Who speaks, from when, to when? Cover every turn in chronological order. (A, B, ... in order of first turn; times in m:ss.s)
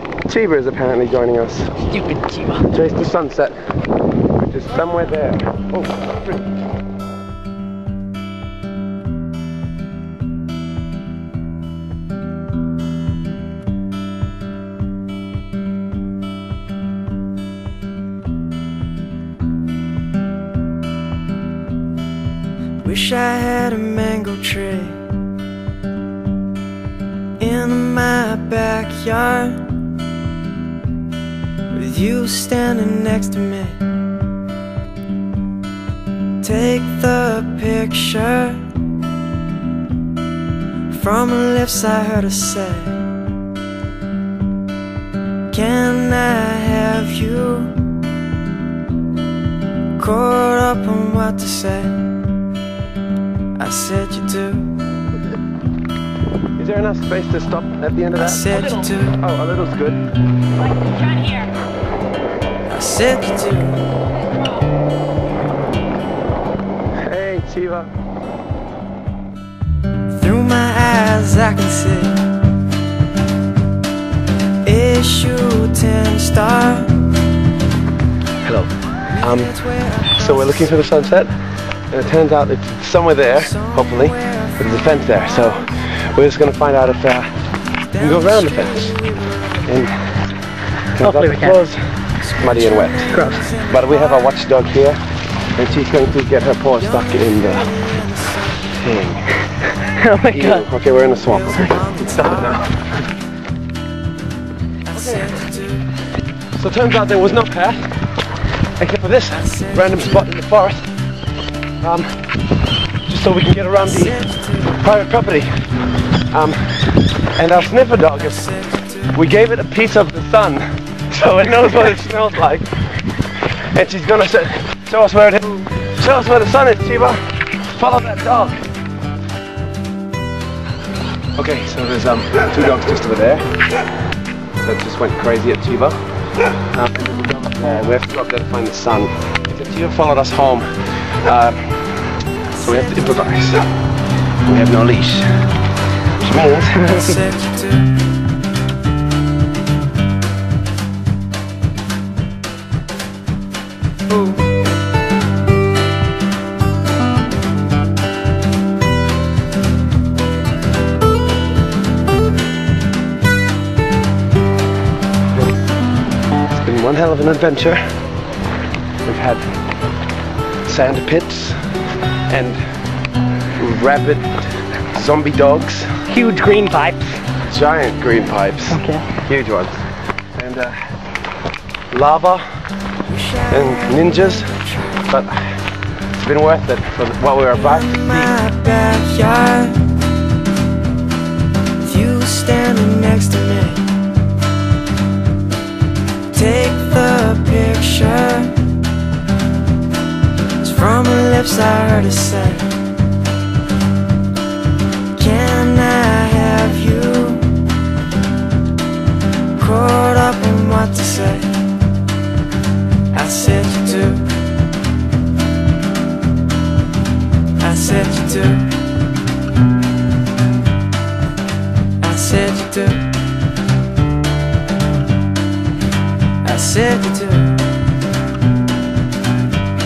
0:00.3-0:01.9 A
0:01.9-0:02.6 B
0:02.6-0:06.4 A
0:22.8-0:25.1 C
0:27.4-0:29.8 C
0:31.7-0:33.8 C
0:36.4-0:38.7 C
0:40.9-0:43.0 C
0:45.5-0:47.9 C
0:50.0-0:52.0 C
0:53.6-0:54.8 C
0:56.6-1:00.0 A
0:58.2-0:59.2 C
1:02.7-1:03.9 C
1:07.0-1:07.9 A
1:10.1-1:12.3 C
1:14.6-1:17.1 C
1:18.4-1:21.3 A
1:19.4-1:20.4 C
1:21.9-1:27.3 A
1:23.6-1:24.6 C
1:27.9-1:29.6 C
1:28.0-1:29.0 A
1:29.6-1:30.0 A
1:31.0-1:35.0 A
1:31.0-1:31.6 B
1:32.5-1:34.3 C
1:33.1-1:33.6 B
1:35.5-1:37.7 A
1:37.0-1:38.7 C
1:38.7-1:39.3 A
1:39.8-1:40.7 B
1:40.3-1:41.8 A
1:41.5-1:42.6 C
1:41.6-1:42.5 B
1:44.9-1:45.4 A
1:45.0-1:45.8 C
1:46.6-1:47.9 A
1:48.8-1:50.9 A
1:51.8-1:52.2 A
1:53.1-1:55.5 A
1:56.3-1:58.6 A
1:58.5-1:59.0 C
1:59.1-2:02.8 A
2:03.5-2:08.6 A
2:11.4-2:13.5 A
2:14.6-2:16.0 A
2:16.6-2:22.0 A
2:22.6-2:23.6 A
2:24.4-2:25.5 A
2:26.2-2:27.2 A
2:27.2-2:27.7 C
2:46.5-2:47.8 A
2:49.0-2:49.4 A
2:50.6-2:51.6 A
2:52.3-2:52.6 A
2:53.5-2:56.0 A
2:56.1-2:57.2 B
2:57.4-2:59.8 A
2:58.7-2:59.1 B
3:00.4-3:00.9 A
3:01.9-3:02.6 A
3:03.1-3:04.6 C
3:03.5-3:04.5 A
3:05.1-3:08.4 A
3:07.7-3:09.8 C
3:11.8-3:13.9 C
3:16.3-3:18.7 C
3:20.6-3:22.8 C
3:25.2-3:27.6 C
3:29.6-3:31.7 C
3:33.1-3:34.4 C
3:37.6-3:38.8 C
3:42.0-3:43.1 C
3:46.4-3:47.7 C